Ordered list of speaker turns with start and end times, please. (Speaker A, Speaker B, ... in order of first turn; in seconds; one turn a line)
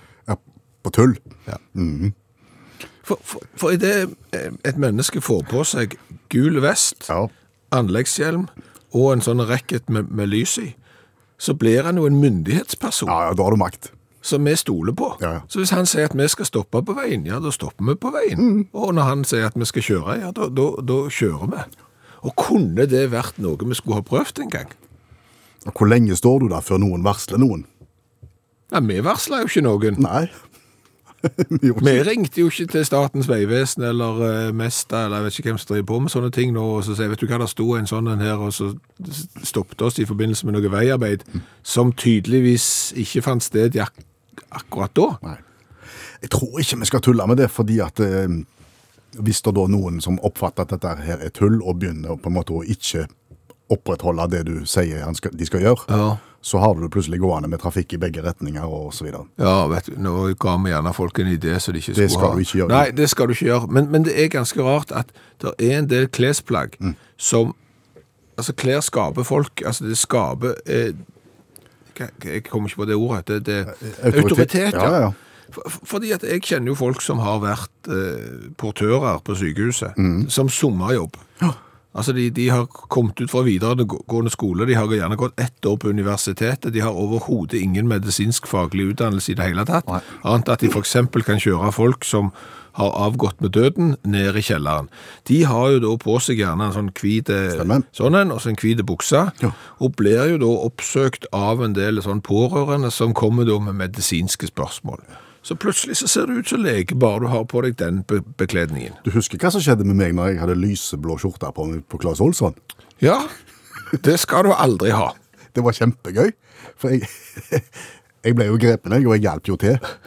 Speaker A: 0.2-2.1
Speaker B: 3.0-7.1
Speaker B: 7.7-10.7
Speaker B: 11.4-13.1
Speaker A: 13.1-13.9
Speaker B: 14.2-21.7
Speaker A: 18.4-18.6
Speaker B: 22.2-24.7
Speaker A: 25.6-27.7
Speaker B: 28.7-30.0
Speaker A: 30.0-30.3
Speaker A: 31.3-32.0
Speaker B: 31.8-43.9
Speaker B: 44.5-45.2
Speaker A: 46.2-48.5
Speaker A: 49.1-53.1
Speaker A: 53.7-55.9
Speaker B: 55.9-56.2
Speaker A: 56.4-59.3
Speaker B: 59.4-67.5
Speaker A: 62.0-62.9
Speaker B: 68.4-71.0
Speaker B: 71.9-81.2
Speaker A: 73.8-75.2
Speaker A: 80.0-80.3
Speaker B: 81.9-109.0
Speaker A: 97.5-97.8
Speaker A: 109.0-112.6
Speaker B: 113.0-113.3
Speaker B: 114.0-115.1
Speaker A: 115.5-119.8